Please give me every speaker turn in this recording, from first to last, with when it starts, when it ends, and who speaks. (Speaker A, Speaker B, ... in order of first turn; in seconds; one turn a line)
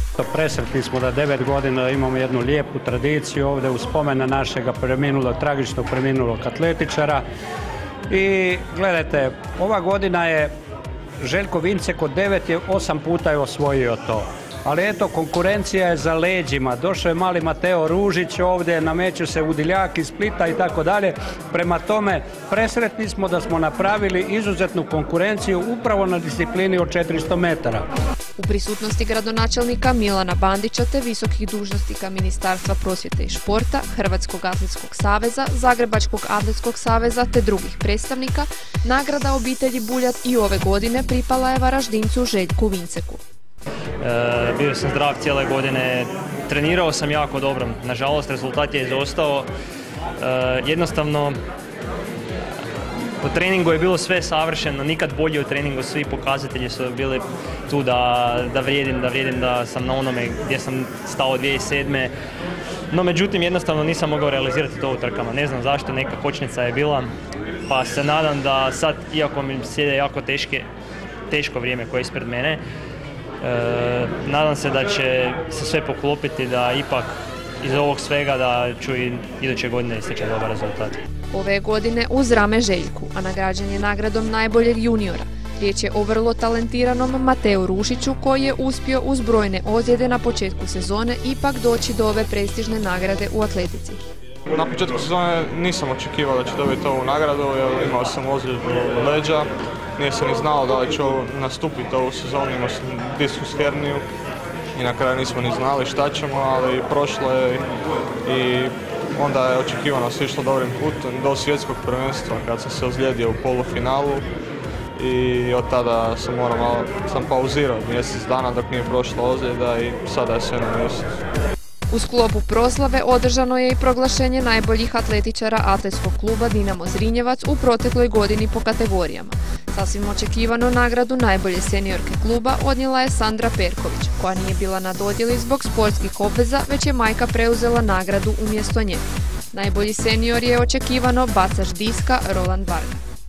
Speaker A: 0.2-7.2
Speaker A: 8.1-10.5
Speaker A: 11.2-27.9
Speaker B: 28.4-43.2
Speaker C: 44.0-49.5
Speaker C: 50.2-51.4
Speaker C: 53.2-62.1
Speaker C: 62.9-67.1
Speaker C: 67.7-70.7
Speaker C: 71.3-72.6
Speaker C: 73.4-81.0
Speaker B: 81.3-94.0
Speaker D: 94.5-104.0
Speaker D: 104.8-107.7
Speaker D: 108.2-114.3
Speaker D: 115.0-121.1
Speaker B: 121.9-143.0